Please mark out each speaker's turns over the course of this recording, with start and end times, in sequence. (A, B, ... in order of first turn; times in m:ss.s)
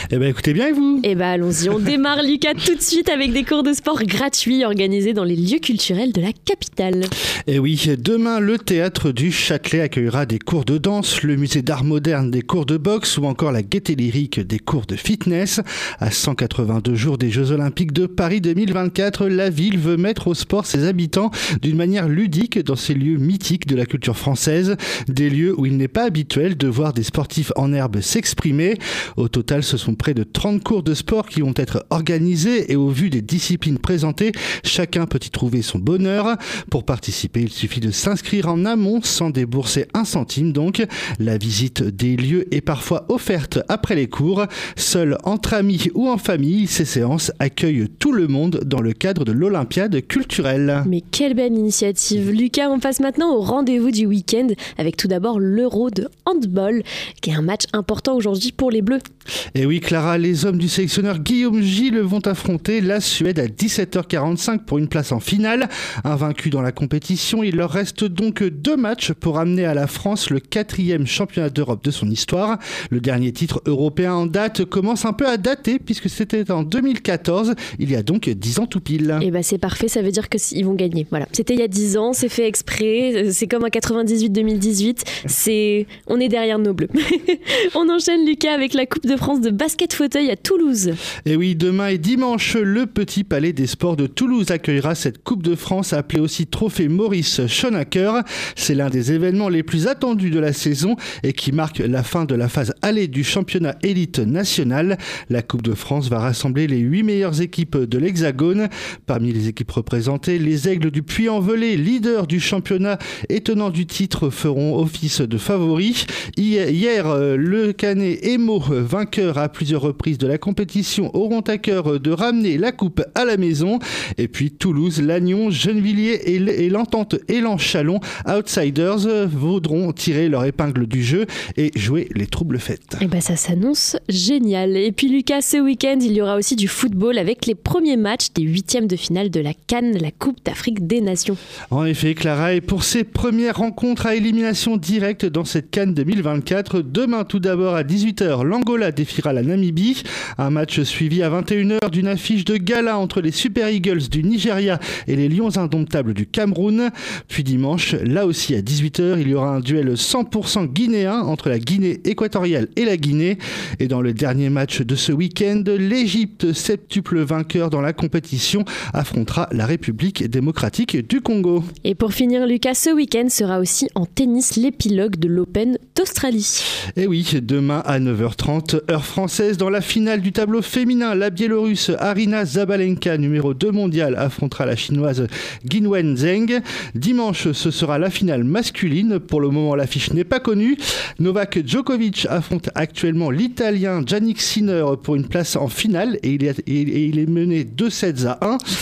0:00.1-0:01.0 A
0:01.0-0:07.1 B
0:07.5-0:50.9 A
0:50.8-0:59.0 B
0:59.6-1:19.2 A
1:19.2-1:31.0 B
1:31.2-2:13.0 A
2:13.0-2:21.4 B
2:21.7-2:51.7 A
2:51.8-2:56.7 B
2:57.0-3:18.6 A